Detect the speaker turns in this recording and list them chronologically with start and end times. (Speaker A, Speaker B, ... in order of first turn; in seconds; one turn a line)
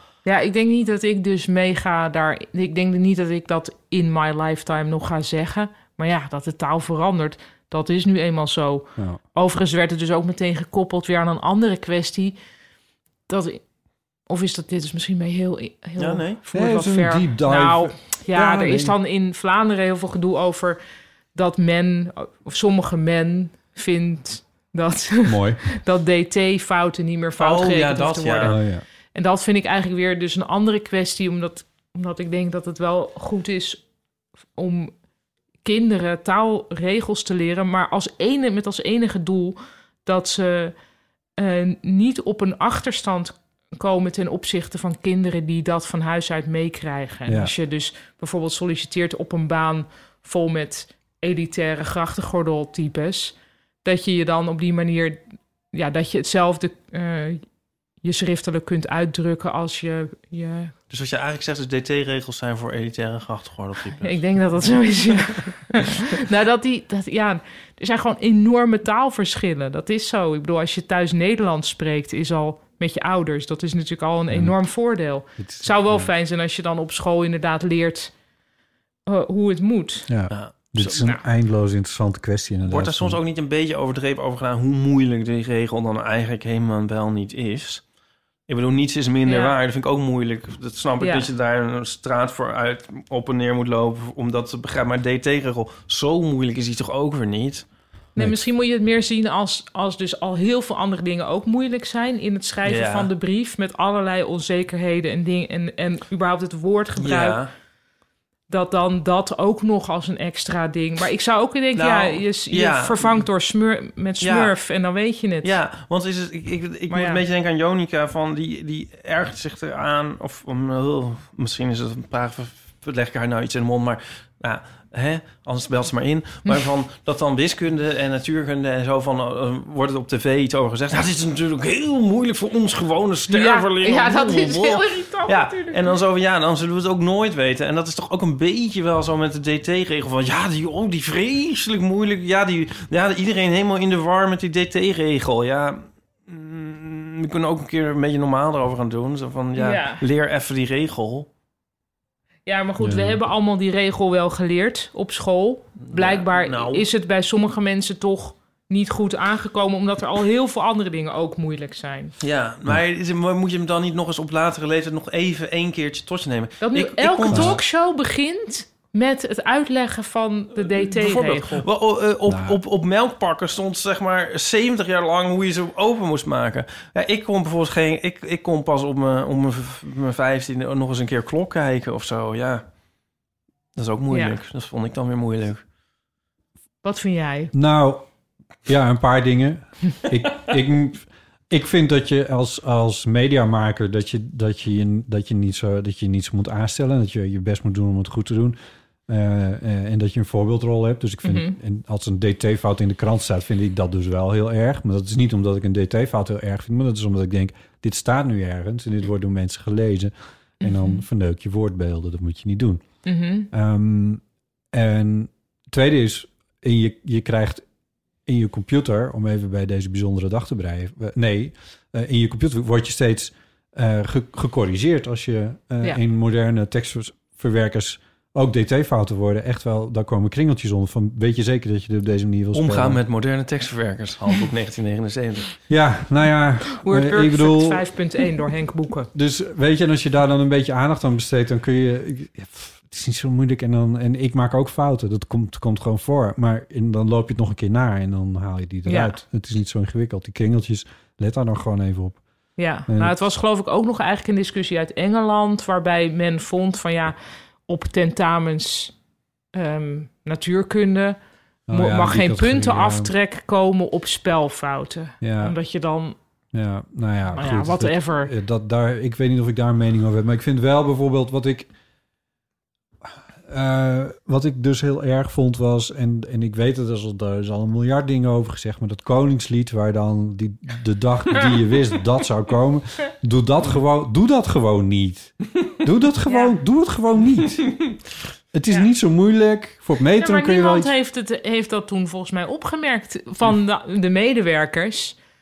Speaker A: 0.2-12.3
Speaker A: 13.3-13.6
Speaker A: 14.3-20.8
Speaker B: 16.0-16.4
Speaker C: 16.5-18.9
Speaker A: 21.3-28.6
Speaker C: 25.2-25.6
Speaker B: 27.4-28.6
Speaker C: 28.4-28.8
Speaker A: 29.1-33.8
Speaker A: 34.6-34.9
Speaker A: 35.6-40.7
Speaker A: 41.4-55.2
Speaker C: 47.3-47.5
Speaker A: 55.7-57.4
Speaker A: 58.0-60.7
Speaker B: 60.9-64.2
Speaker A: 64.0-78.1
Speaker C: 75.4-76.1
Speaker A: 79.1-80.1
Speaker C: 80.1-83.2
Speaker B: 80.3-81.1
Speaker B: 82.7-87.8
Speaker B: 88.5-97.7
Speaker A: 89.2-89.5
Speaker A: 91.0-91.3
Speaker C: 98.2-98.4
Speaker A: 98.2-107.4
Speaker B: 102.6-103.1
Speaker B: 107.0-107.5
Speaker A: 108.5-115.5
Speaker B: 111.8-113.2
Speaker B: 114.2-114.5
Speaker B: 115.4-151.3
Speaker A: 116.9-117.2
Speaker A: 133.3-135.9
Speaker A: 149.6-150.0
Speaker A: 152.4-162.1
Speaker C: 152.8-153.2
Speaker B: 155.8-156.8
Speaker B: 162.2-167.6
Speaker A: 166.6-171.7
Speaker C: 167.3-167.6
Speaker B: 170.7-182.6
Speaker C: 172.3-172.6
Speaker B: 183.8-185.6
Speaker A: 184.1-184.3
Speaker A: 186.8-187.5
Speaker C: 187.5-188.0
Speaker C: 188.7-212.8
Speaker A: 201.2-201.6
Speaker A: 210.6-211.0
Speaker A: 213.0-213.5
Speaker C: 213.5-217.6
Speaker C: 218.3-233.0
Speaker B: 232.5-235.5
Speaker C: 235.7-237.8
Speaker A: 236.8-239.1
Speaker C: 239.1-252.2
Speaker A: 248.8-249.2
Speaker A: 252.6-257.1
Speaker C: 252.9-253.2
Speaker A: 257.7-258.9
Speaker A: 259.5-261.2
Speaker C: 261.7-263.1
Speaker A: 261.7-266.1
Speaker C: 265.2-265.5
Speaker C: 266.5-271.7
Speaker A: 267.3-268.3
Speaker C: 273.5-287.8
Speaker A: 286.3-286.5
Speaker C: 288.5-290.9
Speaker A: 290.2-295.2